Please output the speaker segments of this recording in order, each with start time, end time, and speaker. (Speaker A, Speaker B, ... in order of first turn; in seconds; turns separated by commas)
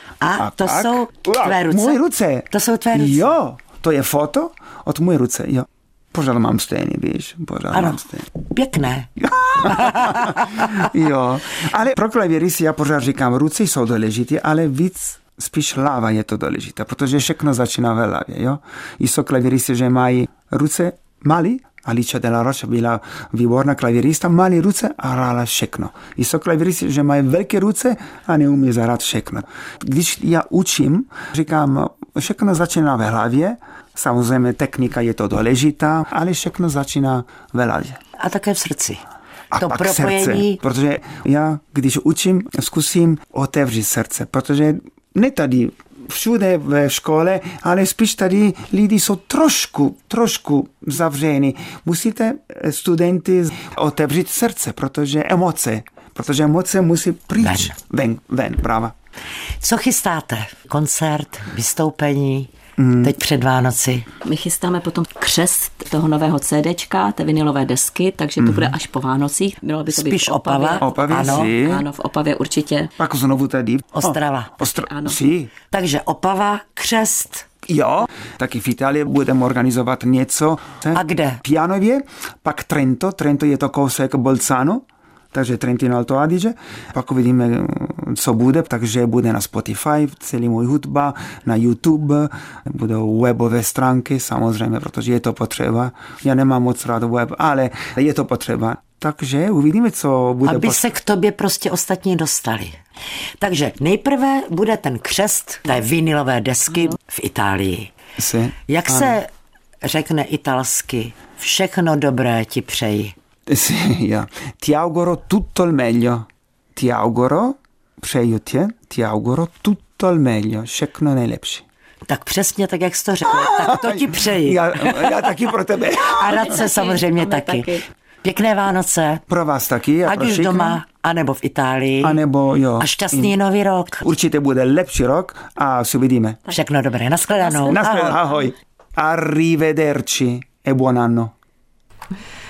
Speaker A: 0.2-2.0, Speaker B: 0.3-8.3, Speaker A: 2.5-3.2, Speaker A: 7.7-9.1, Speaker B: 9.2-38.0, Speaker A: 9.6-10.7, Speaker A: 38.2-39.0, Speaker B: 39.5-58.9, Speaker A: 39.6-40.6, Speaker A: 57.4-57.7, Speaker A: 59.6-62.5, Speaker B: 62.8-63.1, Speaker A: 63.0-64.1, Speaker C: 64.2-72.9, Speaker B: 68.4-68.8, Speaker A: 69.9-71.5, Speaker B: 70.8-71.8, Speaker B: 73.0-75.5, Speaker A: 74.0-74.6, Speaker C: 74.8-75.2, Speaker A: 75.7-77.5, Speaker B: 77.7-100.8, Speaker A: 81.0-81.4, Speaker A: 100.4-102.8, Speaker A: 103.4-107.9, Speaker B: 108.2-109.2, Speaker A: 108.7-109.3, Speaker A: 109.8-113.1, Speaker B: 113.5-121.6, Speaker A: 122.1-125.3, Speaker B: 123.6-126.6, Speaker A: 126.0-129.2, Speaker C: 126.4-127.8, Speaker B: 129.3-130.8, Speaker A: 130.1-132.2, Speaker B: 132.0-133.3, Speaker A: 132.8-134.1, Speaker B: 134.0-136.4, Speaker A: 136.5-138.2, Speaker C: 137.4-137.8, Speaker B: 137.7-141.3